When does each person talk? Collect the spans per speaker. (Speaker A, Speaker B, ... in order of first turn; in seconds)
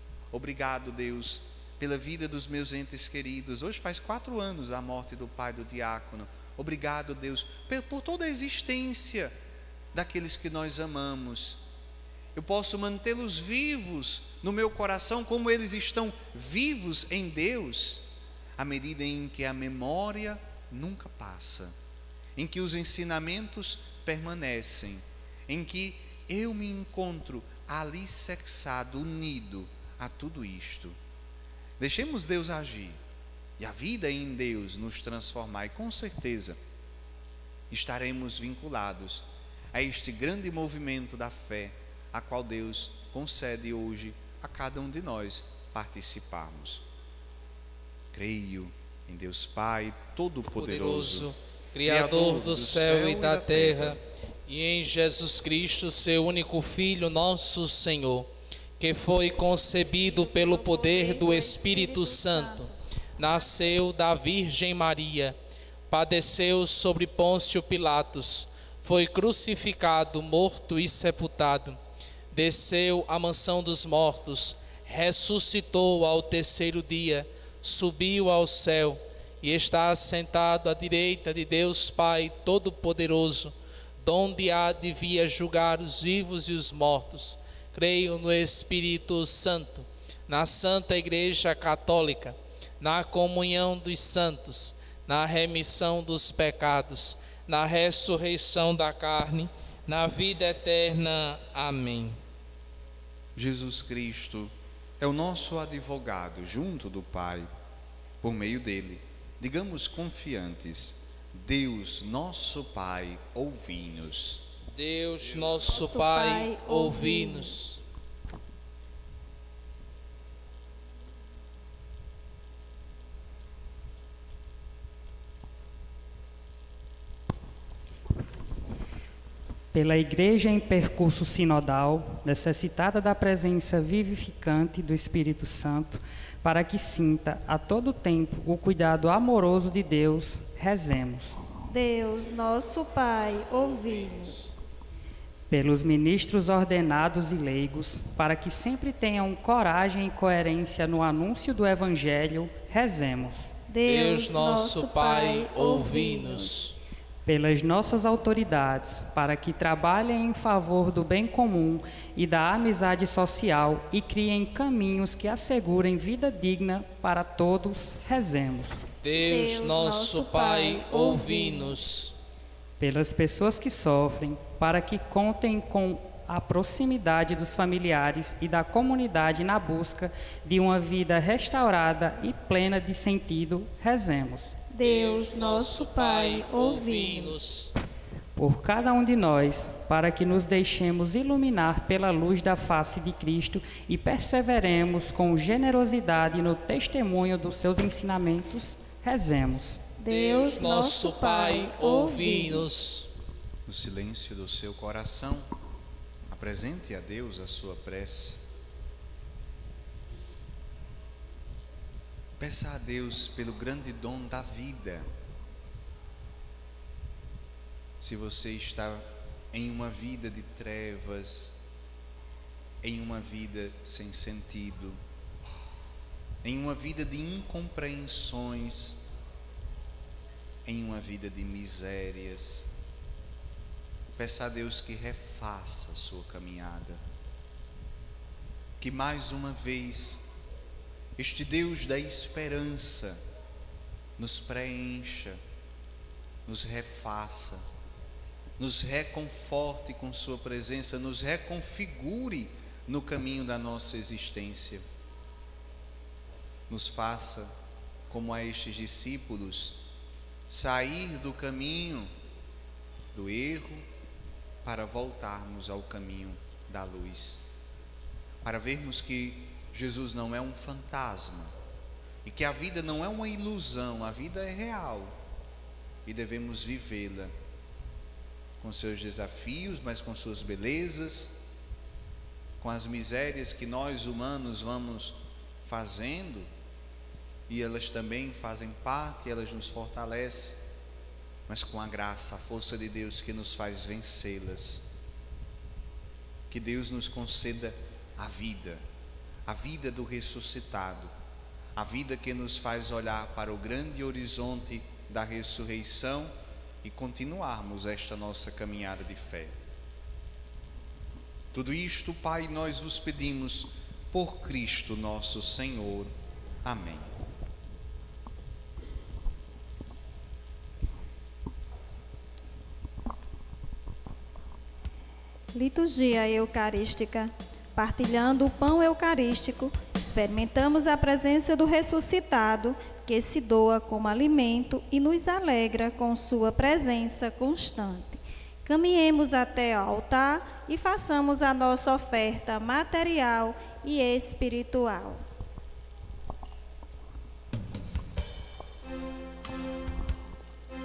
Speaker A: 0.3-9.3, 9.9-11.6, 12.3-18.0, 18.6-21.7, 22.4-31.0, 31.8-33.0, 33.6-36.6, 37.7-46.9, 48.1-51.3, 51.8-54.0, 103.3-107.5, 108.2-114.4, 203.7-205.5, 206.3-208.5, 212.4-215.1, 218.0-221.6, 222.8-225.0, 226.4-229.1, 230.7-232.7, 234.1-237.0, 238.8-240.3, 241.2-243.2, 244.2-245.4, 246.4-247.6, 248.6-254.8, 256.7-257.5, 258.1-259.8, 260.5-262.1, 263.1-263.9, 264.6-267.4, 268.4-271.5, 272.2-275.1, 276.0-277.3, 278.6-281.4, 282.6-286.5, 287.5-290.6, 291.5-294.9, 296.5-298.8, 299.4-301.1, 301.7-309.5, 311.5-316.1, 316.6-317.1
Speaker B: 50.5-58.3, 58.8-65.3, 65.9-71.8, 72.3-102.2, 114.7-117.8, 153.9-156.8, 169.0-172.1, 184.8-187.7, 200.1-203.1
Speaker C: 60.0-63.4, 115.5-117.6, 141.7-144.4, 153.7-156.5, 169.2-171.8, 184.7-187.4, 200.0-202.7, 325.5-345.2
Speaker D: 129.7-141.4, 145.5-153.5, 157.2-168.8, 172.8-184.5, 188.3-199.8